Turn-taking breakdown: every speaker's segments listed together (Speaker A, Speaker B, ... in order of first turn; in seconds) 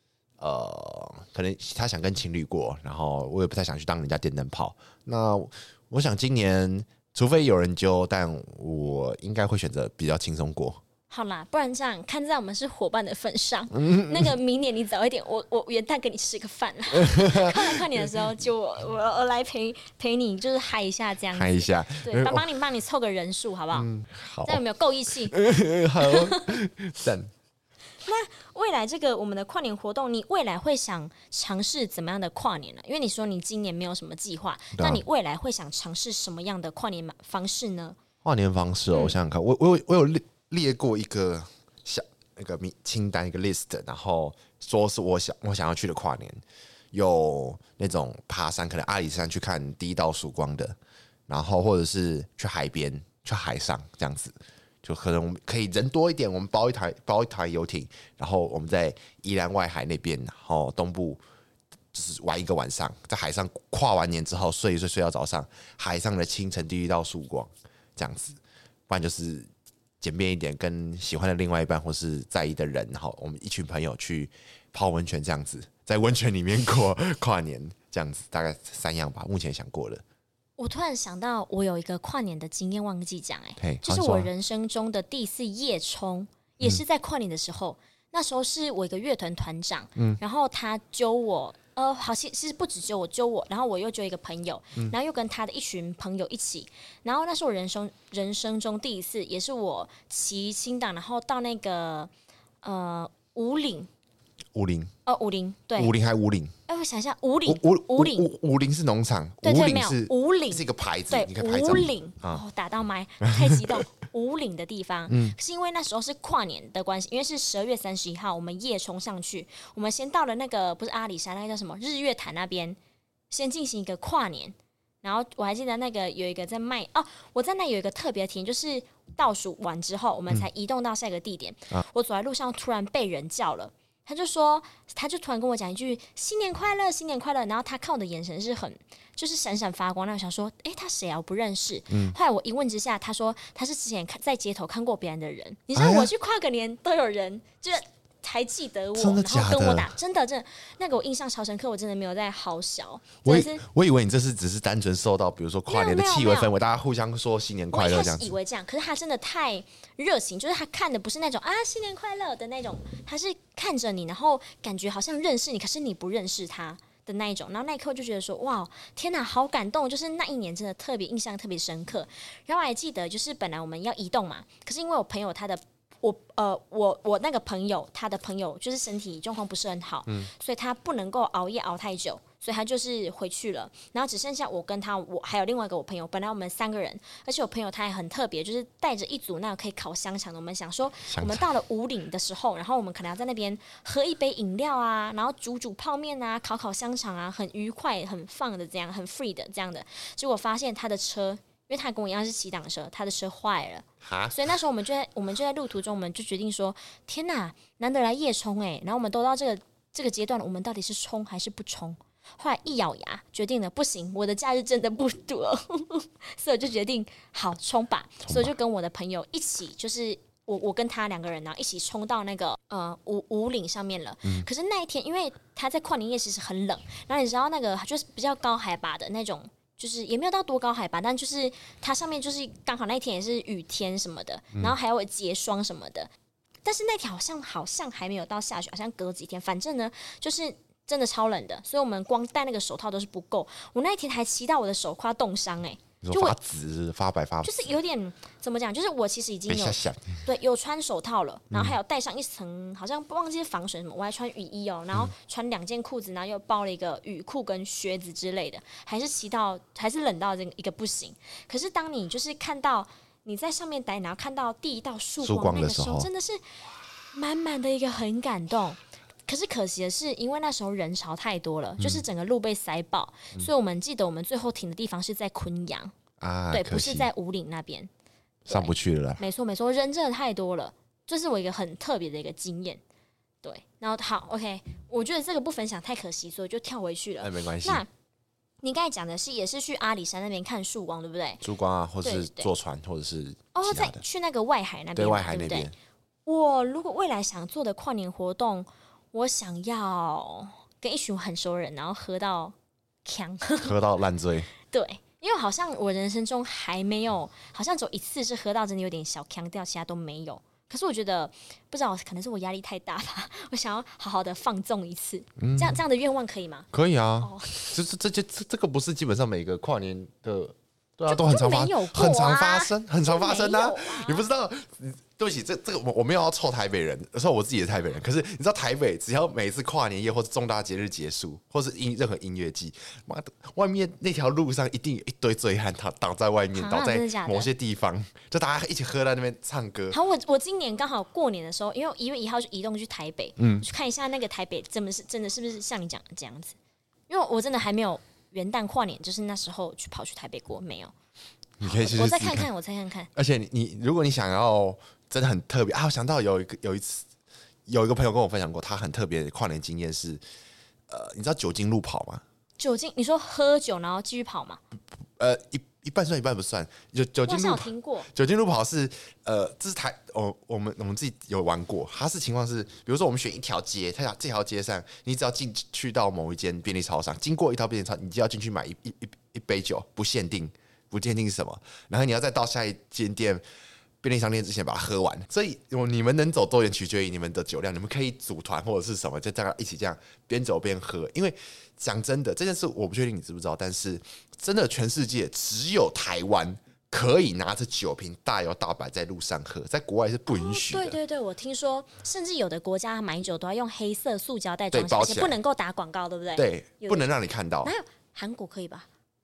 Speaker A: 0.4-10.8, 13.8-14.3, 16.9-18.1, 21.3-22.5, 23.7-24.6, 25.3-27.3, 34.8-35.0, 38.2-50.8, 51.3-61.2, 61.9-69.5, 70.0-80.0, 83.6-84.3, 104.5-104.9, 105.8-106.5, 107.5-112.4, 113.2-113.8, 115.1-115.4, 141.9-142.2, 145.8-146.1, 149.0-149.9, 153.2-158.3, 191.1-191.5, 204.0-204.5, 218.3-218.5, 246.0-247.7, 249.5-250.2, 251.5-251.8, 265.2-266.1, 276.2-277.1, 278.5-279.2, 287.2-287.8, 291.4-294.0, 295.0-295.7, 303.6-304.5, 315.4-315.8, 316.7-340.0, 343.4-343.7, 351.6-352.5, 353.1-357.1, 357.7-360.2, 360.9-362.2, 365.2-383.4, 384.0-401.0, 404.7-405.4, 406.4-407.7
Speaker B: 11.1-23.9, 24.5-25.4, 26.0-26.6, 28.0-38.0, 80.6-102.1, 102.6-103.9, 105.1-105.9, 106.7-108.3, 109.4-122.8, 123.3-153.6, 155.7-156.5, 157.7-236.1, 236.7-246.4, 247.4-266.4, 267.1-275.9, 276.5-277.9, 278.5-282.8, 283.4-287.9, 288.6-291.4, 292.0-292.5, 293.5-295.7, 296.3-303.8, 304.7-316.7, 317.2-317.8, 321.1-324.3, 336.5-337.5, 339.9-346.6, 347.1-350.9, 351.6-353.1, 362.6-364.6, 367.3-368.1, 400.3-407.1, 407.6-408.9